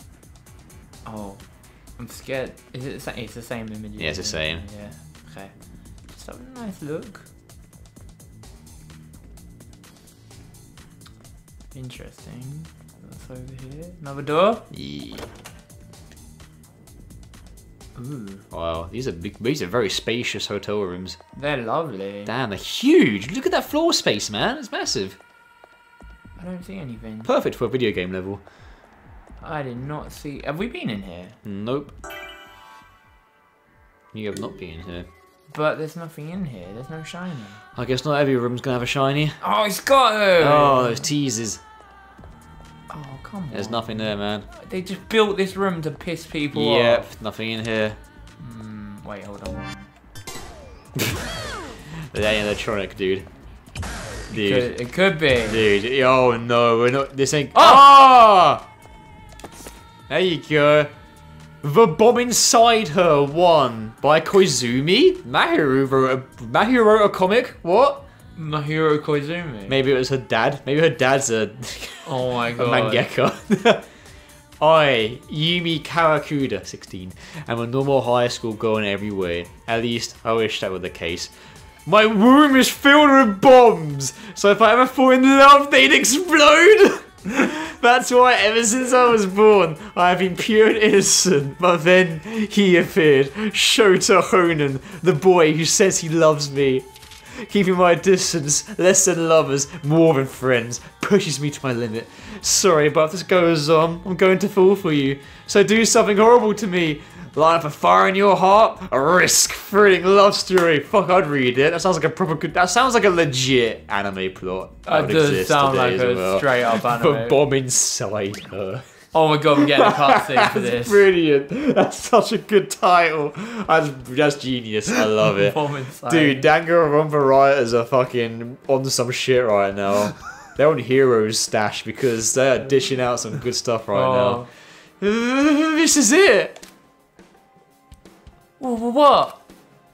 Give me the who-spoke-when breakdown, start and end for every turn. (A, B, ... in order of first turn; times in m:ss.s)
0:01.0-0:01.4 A
0:02.0-0:05.6 A
0:04.0-0:04.6 B
0:06.1-0:07.3 A
0:11.7-0:14.7 A
0:14.7-0:15.3 B
0:18.0-0:18.4 A
0:18.5-0:21.2 B
0:21.4-0:22.3 A
0:22.3-0:25.2 B
0:26.4-0:27.3 A
0:27.2-0:28.4 B
0:29.4-0:31.4 A
0:31.4-0:31.9 B
0:34.1-0:35.1 B
0:35.5-0:37.6 A
0:37.8-0:39.4 B
0:39.4-0:41.1 A
0:40.4-0:41.6 B
0:42.9-0:47.1 A
0:43.5-0:44.5 B
0:46.5-0:48.0 B
0:48.4-0:49.9 A
0:51.9-0:53.3 B
0:54.3-0:54.7 B
0:54.3-0:55.6 A
0:55.5-0:58.6 B
0:57.5-0:57.8 A
1:00.1-1:00.9 B
1:01.6-1:08.0 B
1:08.4-1:09.8 A
1:09.7-1:13.9 B
1:12.0-1:13.1 A
1:14.6-1:21.3 B
1:21.9-1:58.8 B
1:54.9-1:57.4 A
1:59.1-2:01.0 A
1:59.6-2:16.6 B
2:05.1-2:06.5 A
2:13.9-2:14.5 A
2:18.6-2:19.4 A